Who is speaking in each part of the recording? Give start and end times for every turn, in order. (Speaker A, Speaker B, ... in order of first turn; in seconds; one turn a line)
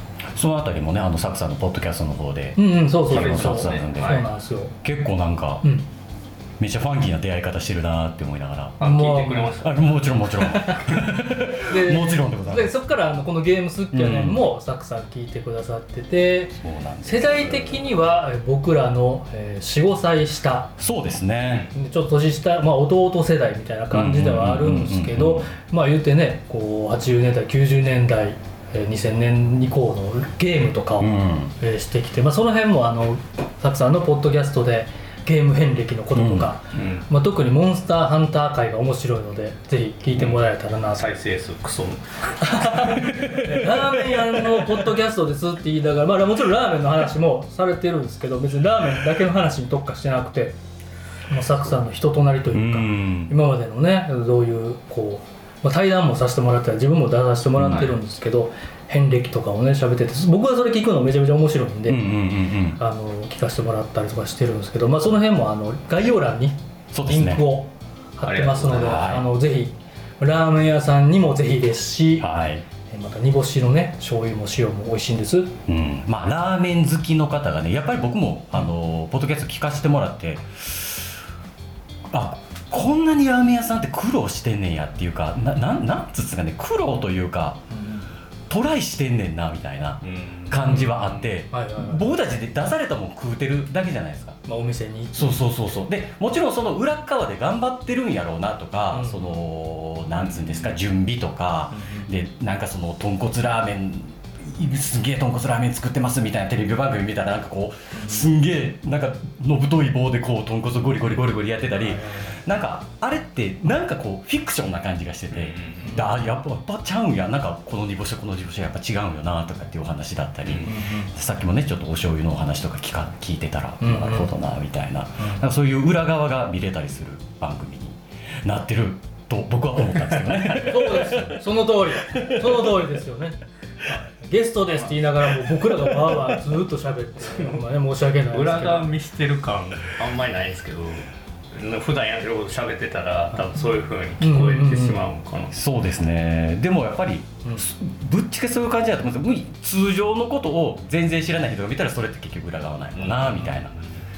Speaker A: 0.3-4.2
Speaker B: 2.6-4.7
Speaker C: 3.1-4.2
Speaker A: 4.8-5.7
Speaker B: 5.6-5.9
Speaker A: 6.6-8.8
Speaker C: 8.8-9.9
Speaker B: 8.8-9.6
Speaker A: 9.6-12.7
Speaker B: 10.4-20.8
Speaker A: 13.9-14.4
Speaker A: 16.6-17.9
Speaker A: 20.8-21.7
Speaker B: 21.7-41.1
Speaker A: 23.9-25.5
Speaker A: 31.0-31.5
Speaker A: 36.1-36.5
Speaker C: 36.7-37.1
Speaker C: 40.2-40.4
Speaker C: 41.0-42.9
Speaker B: 42.4-50.6
Speaker A: 43.0-44.9
Speaker B: 51.3-62.1
Speaker A: 52.5-53.4
Speaker A: 57.6-57.9
Speaker C: 57.6-58.0
Speaker A: 61.9-62.8
Speaker B: 62.8-72.3
Speaker A: 66.9-67.5
Speaker C: 68.2-69.1
Speaker A: 68.8-69.2
Speaker A: 72.2-72.7
Speaker B: 72.9-75.5
Speaker A: 75.7-81.2
Speaker A: 82.1-87.6
Speaker B: 87.7-88.1
Speaker A: 88.5-94.4
Speaker C: 90.0-91.3
Speaker B: 90.6-91.0
Speaker B: 91.5-92.1
Speaker B: 94.5-95.4
Speaker A: 95.1-131.4
Speaker B: 98.9-99.4
Speaker C: 100.2-100.8
Speaker B: 101.7-102.1
Speaker B: 107.9-108.3
Speaker B: 111.8-112.4
Speaker C: 115.3-115.9
Speaker C: 120.5-120.7
Speaker B: 120.6-121.1
Speaker B: 123.8-124.3
Speaker C: 130.2-130.6
Speaker B: 130.5-133.4
Speaker A: 132.0-132.6
Speaker B: 133.9-138.9
Speaker C: 138.3-145.6
Speaker B: 144.2-145.0
Speaker A: 145.5-153.8
Speaker C: 152.9-153.8